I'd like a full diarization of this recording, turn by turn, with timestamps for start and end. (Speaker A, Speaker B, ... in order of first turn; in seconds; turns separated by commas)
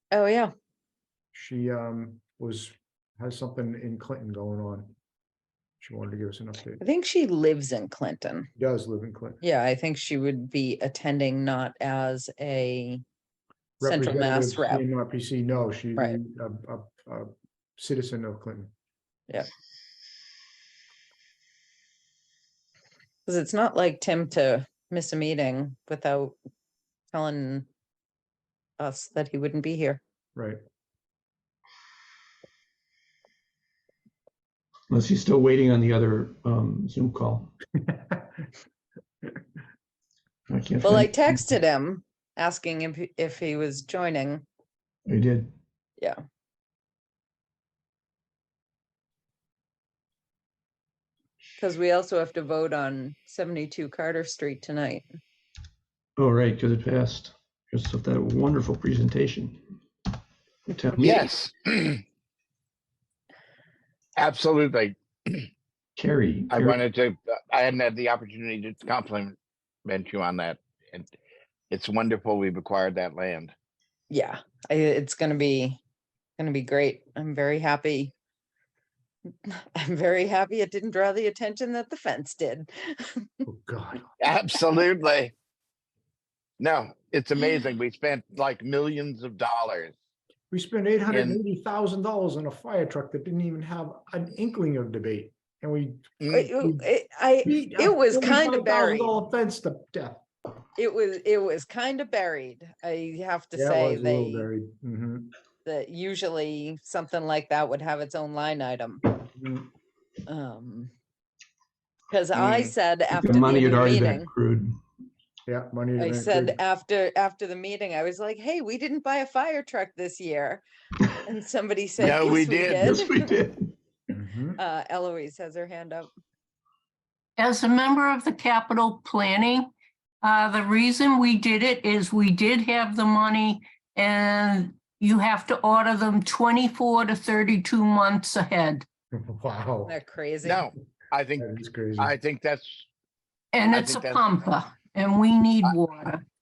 Speaker A: 0.1-0.5, Speaker B: 1.3-4.9, Speaker B: 5.8-6.8, Speaker A: 6.8-8.5, Speaker B: 8.6-9.4, Speaker A: 9.4-13.0, Speaker B: 13.8-18.7, Speaker A: 13.8-14.8, Speaker A: 23.3-26.3, Speaker A: 27.1-27.7, Speaker A: 28.8-30.0, Speaker B: 30.3-30.6, Speaker C: 34.9-37.5, Speaker B: 37.8-38.2, Speaker C: 40.5-41.4, Speaker A: 40.8-44.4, Speaker C: 45.1-45.5, Speaker A: 51.6-55.0, Speaker C: 56.2-59.6, Speaker C: 60.7-61.3, Speaker D: 61.0-62.0, Speaker D: 64.2-65.5, Speaker C: 66.0-66.8, Speaker D: 66.5-71.1, Speaker D: 71.7-73.5, Speaker A: 74.1-75.8, Speaker A: 76.4-78.1, Speaker A: 79.5-83.4, Speaker B: 83.5-84.1, Speaker D: 84.2-85.3, Speaker D: 86.6-89.9, Speaker B: 90.5-96.8, Speaker D: 91.1-91.4, Speaker D: 96.2-96.5, Speaker A: 96.3-99.2, Speaker B: 97.4-100.2, Speaker A: 100.8-104.5, Speaker B: 103.5-105.3, Speaker A: 105.6-109.0, Speaker B: 109.4-109.7, Speaker A: 110.3-110.9, Speaker A: 112.1-114.3, Speaker D: 112.4-112.7, Speaker C: 113.1-114.8, Speaker B: 115.5-116.6, Speaker A: 116.0-120.6, Speaker A: 121.2-123.2, Speaker D: 122.0-123.0, Speaker C: 122.7-123.7, Speaker B: 124.1-124.6, Speaker A: 124.6-126.1, Speaker E: 127.4-129.7, Speaker E: 130.2-138.8, Speaker B: 139.2-139.9, Speaker A: 139.9-140.7, Speaker D: 140.4-142.9, Speaker B: 141.4-142.1, Speaker E: 143.5-146.2, Speaker D: 143.7-144.3